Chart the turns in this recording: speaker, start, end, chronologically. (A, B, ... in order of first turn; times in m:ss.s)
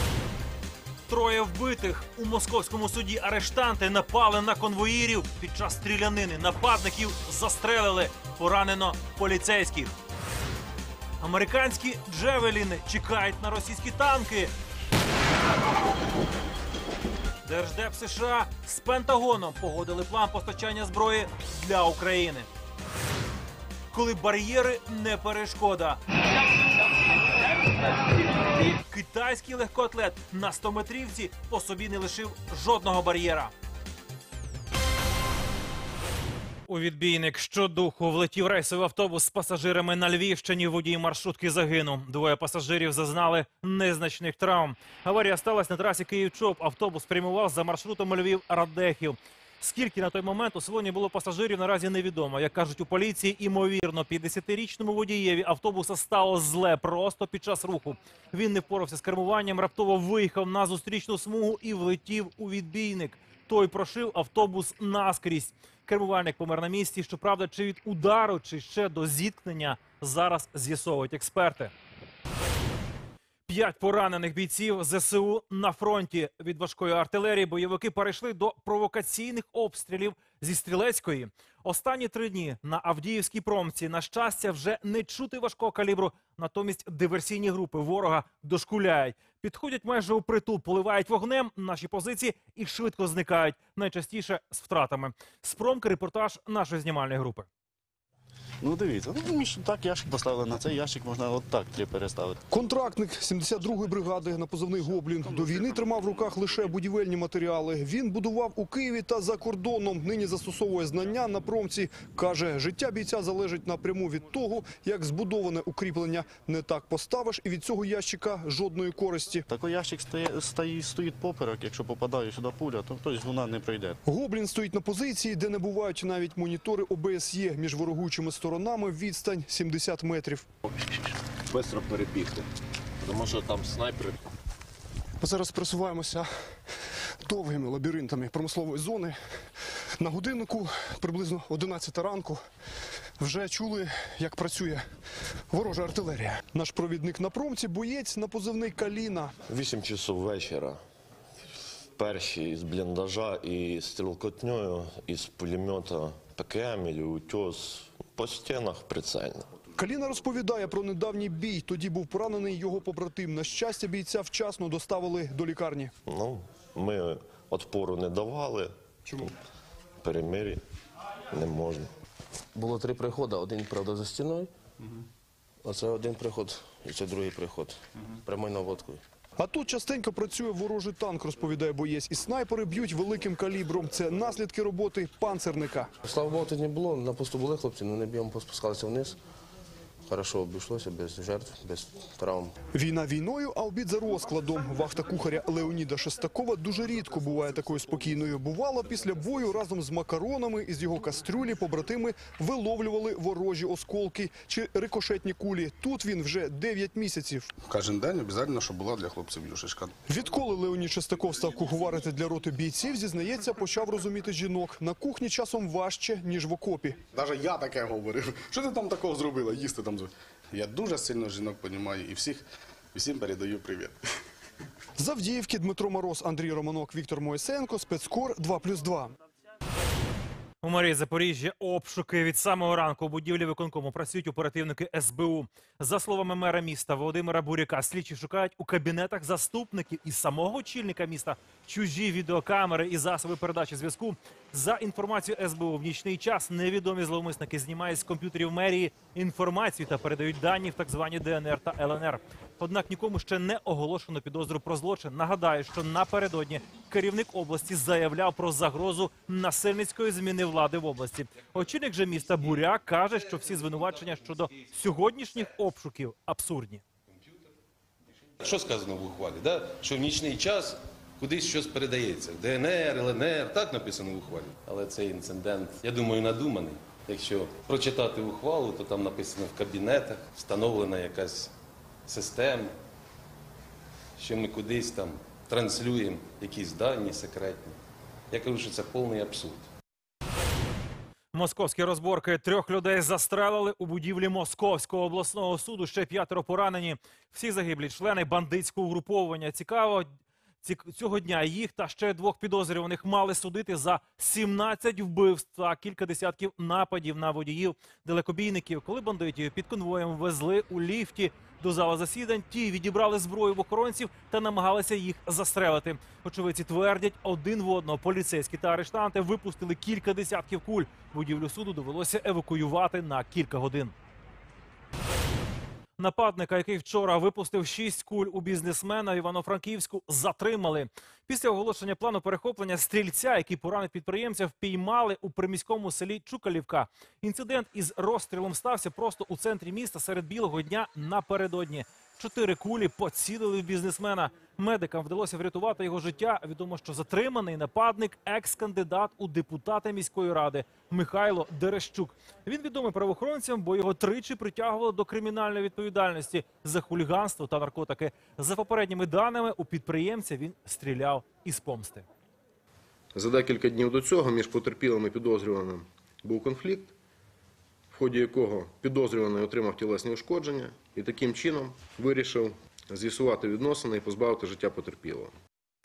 0:01.1-0:09.9 A
0:11.2-0:14.5 A
0:17.4-0:22.5 A
0:23.9-0:26.0 A
0:28.5-0:33.5 A
0:36.7-1:11.7 A
1:13.5-1:37.5 A
1:38.6-1:42.4 B
1:42.5-1:59.4 C
1:59.5-2:04.0 B
2:04.0-2:10.5 C
2:11.6-2:12.3 D
2:15.2-2:16.5 C
2:17.2-2:22.4 C
2:23.2-2:24.8 C
2:25.5-2:29.3 C
2:29.5-2:30.8 E
2:32.0-2:39.5 E
2:39.8-2:45.9 C
2:46.0-2:49.2 E
2:50.0-2:50.6 E
2:51.3-2:51.9 E
2:52.5-2:54.5 D
2:55.6-2:59.0 D
2:59.4-3:05.9 C
3:06.0-3:09.2 D
3:10.1-3:12.5 D
3:12.7-3:27.5 C
3:27.6-3:29.9 F
3:30.1-3:37.0 C
3:37.1-3:44.0 F
3:45.0-3:49.1 C
3:50.6-4:26.8 A
4:28.4-4:41.5 G
4:42.0-4:42.7 G
4:44.2-4:47.8 G
4:48.3-4:49.7 G
4:51.3-5:00.1 A
5:00.6-5:23.9 A
5:26.0-6:02.0 A
6:03.1-6:06.9 H
6:07.9-6:15.3 H